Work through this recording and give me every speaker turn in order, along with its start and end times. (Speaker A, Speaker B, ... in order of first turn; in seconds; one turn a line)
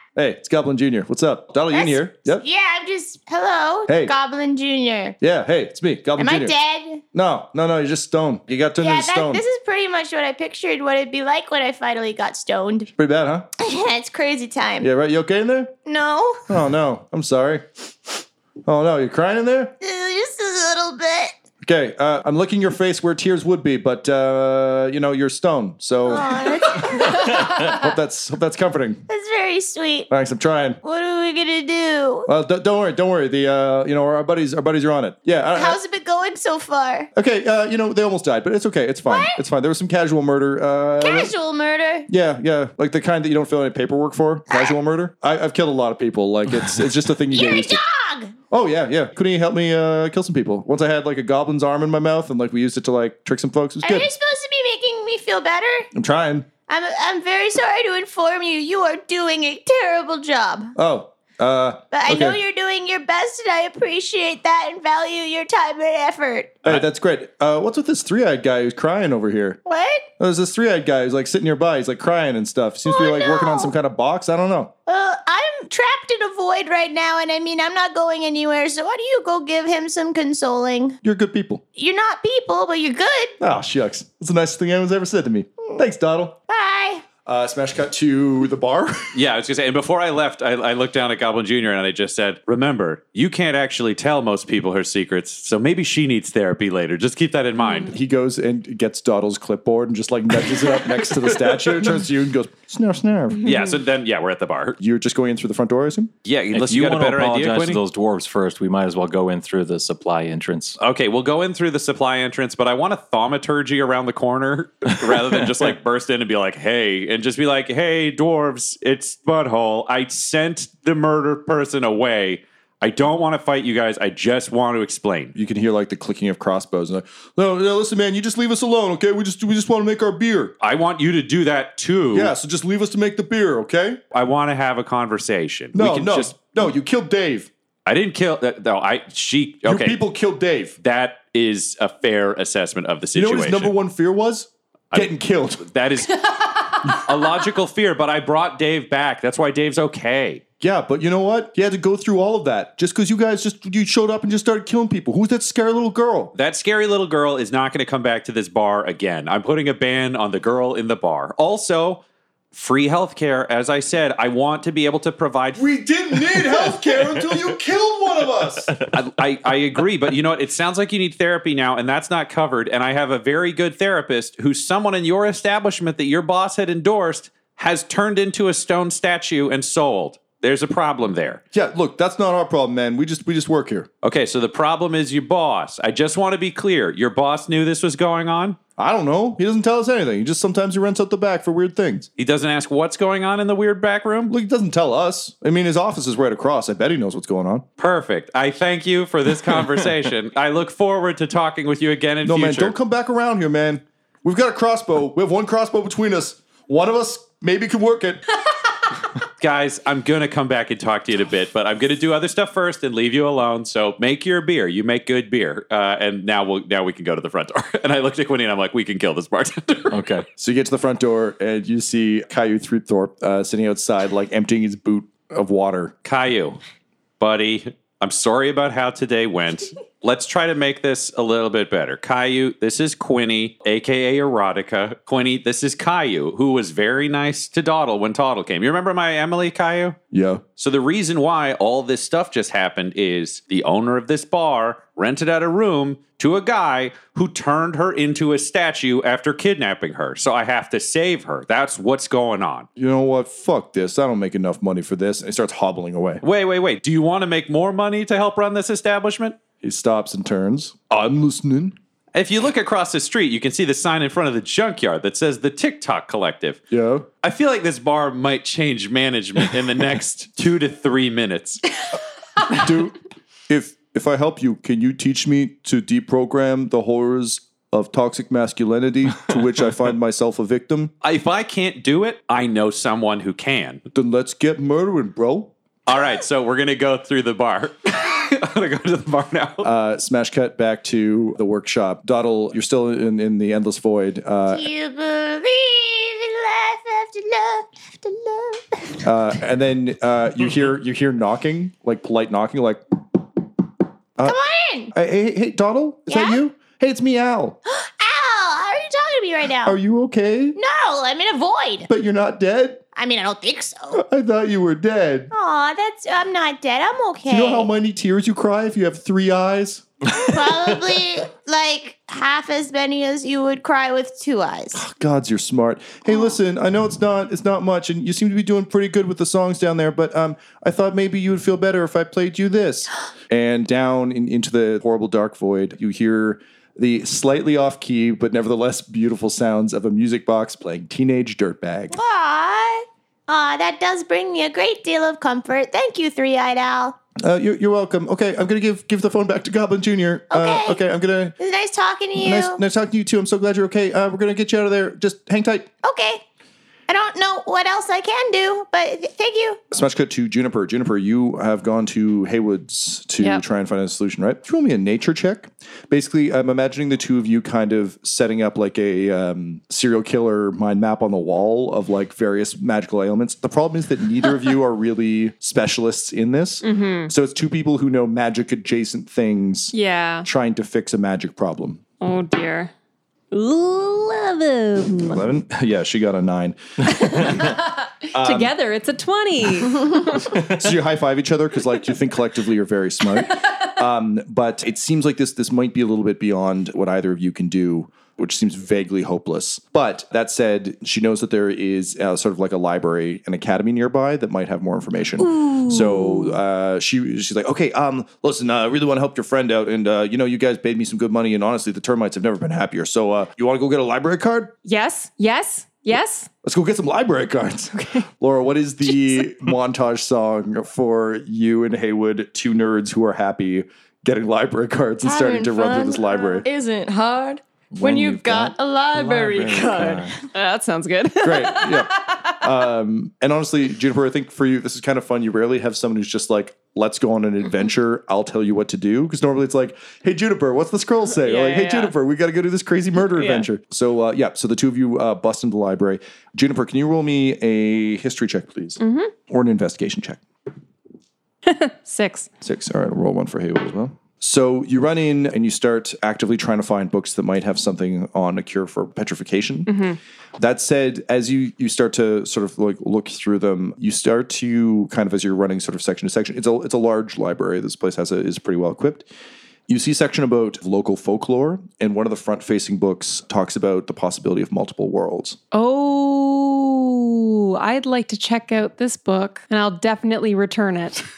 Speaker A: 0.1-2.5
Speaker B: 1.7-5.2
Speaker A: 3.9-4.1
Speaker A: 5.2-6.5
Speaker B: 6.2-7.0
Speaker A: 7.1-9.4
Speaker B: 8.8-12.9
Speaker A: 13.0-13.5
Speaker B: 13.6-14.9
Speaker A: 14.8-15.8
Speaker B: 15.8-16.5
Speaker A: 16.5-19.7
Speaker B: 19.8-21.4
Speaker A: 21.6-29.1
Speaker B: 26.1-27.6
Speaker B: 29.1-30.1
Speaker A: 30.1-30.8
Speaker B: 30.8-32.3
Speaker A: 32.3-35.8
Speaker B: 35.5-37.1
Speaker A: 37.1-41.3
Speaker B: 39.1-39.4
Speaker B: 41.0-42.1
Speaker A: 42.1-47.8
Speaker B: 47.3-48.4
Speaker A: 48.5-54.1
Speaker B: 53.8-55.9
Speaker A: 55.9-56.5
Speaker B: 56.7-60.7
Speaker A: 60.8-62.4
Speaker B: 61.9-66.7
Speaker A: 66.6-69.6
Speaker B: 69.7-70.1
Speaker A: 70.2-74.7
Speaker B: 72.9-73.7
Speaker B: 74.9-81.0
Speaker A: 81.0-81.6
Speaker B: 81.8-83.4
Speaker A: 83.4-86.4
Speaker B: 86.5-87.1
Speaker A: 87.2-89.2
Speaker C: 89.2-97.9
Speaker A: 97.9-103.5
Speaker C: 103.5-104.8
Speaker A: 104.8-106.1
Speaker C: 106.3-107.8
Speaker D: 106.5-110.8
Speaker C: 110.8-125.3
Speaker A: 125.3-130.6
Speaker C: 130.6-132.3
Speaker A: 132.1-134.0
Speaker C: 134.1-136.3
Speaker A: 135.7-137.5
Speaker C: 137.9-140.0
Speaker A: 139.6-140.8
Speaker C: 140.8-143.7
Speaker A: 143.2-145.7
Speaker C: 145.6-150.4
Speaker A: 150.6-156.3
Speaker C: 156.4-162.0
Speaker C: 162.5-165.6
Speaker A: 165.6-168.7
Speaker C: 168.9-181.4
Speaker A: 181.5-183.9
Speaker C: 184.0-188.6
Speaker A: 188.8-192.1
Speaker C: 192.2-194.3
Speaker A: 194.3-197.7
Speaker C: 197.8-202.7
Speaker A: 202.2-208.2
Speaker C: 209.4-220.0
Speaker D: 219.9-220.3
Speaker A: 220.4-225.9
Speaker C: 226.1-226.6
Speaker C: 227.2-240.0
Speaker A: 240.1-240.4
Speaker C: 240.6-252.7
Speaker A: 252.8-256.2
Speaker C: 256.2-259.4
Speaker A: 259.6-261.8
Speaker C: 262.1-266.6
Speaker A: 266.7-267.1
Speaker C: 267.2-271.6
Speaker A: 272.5-273.0
Speaker A: 273.5-280.9
Speaker C: 281.0-283.8
Speaker A: 283.9-285.5
Speaker C: 285.9-289.7
Speaker A: 289.6-294.7
Speaker B: 294.5-299.0
Speaker A: 299.0-302.8
Speaker B: 304.2-304.9
Speaker A: 304.9-307.6
Speaker B: 306.1-306.4
Speaker B: 307.7-309.8
Speaker A: 309.6-310.6
Speaker B: 310.6-311.9
Speaker A: 311.9-312.8
Speaker B: 312.9-314.0
Speaker A: 313.9-315.3
Speaker B: 315.3-317.7
Speaker A: 317.3-319.9
Speaker B: 320.1-324.8
Speaker A: 324.7-341.9
Speaker B: 341.9-347.0
Speaker A: 347.2-351.4
Speaker B: 350.3-350.8
Speaker B: 351.4-352.6
Speaker A: 352.2-355.7
Speaker B: 355.8-356.2
Speaker B: 356.9-359.6
Speaker A: 359.7-381.8
Speaker E: 376.6-377.1
Speaker E: 379.7-380.3
Speaker E: 382.0-382.7
Speaker A: 385.0-387.1
Speaker E: 387.0-390.3
Speaker A: 388.1-388.6
Speaker A: 390.1-414.5
Speaker E: 414.6-416.3
Speaker A: 416.4-426.5
Speaker E: 417.8-418.0
Speaker F: 425.0-430.2
Speaker D: 427.7-430.1
Speaker E: 430.3-431.9
Speaker A: 431.2-450.2
Speaker E: 441.2-441.9
Speaker E: 443.1-443.5
Speaker E: 448.8-449.1
Speaker E: 451.5-452.3
Speaker A: 452.4-459.8
Speaker E: 459.7-460.0
Speaker A: 460.4-469.1
Speaker A: 469.7-475.4
Speaker E: 475.5-481.0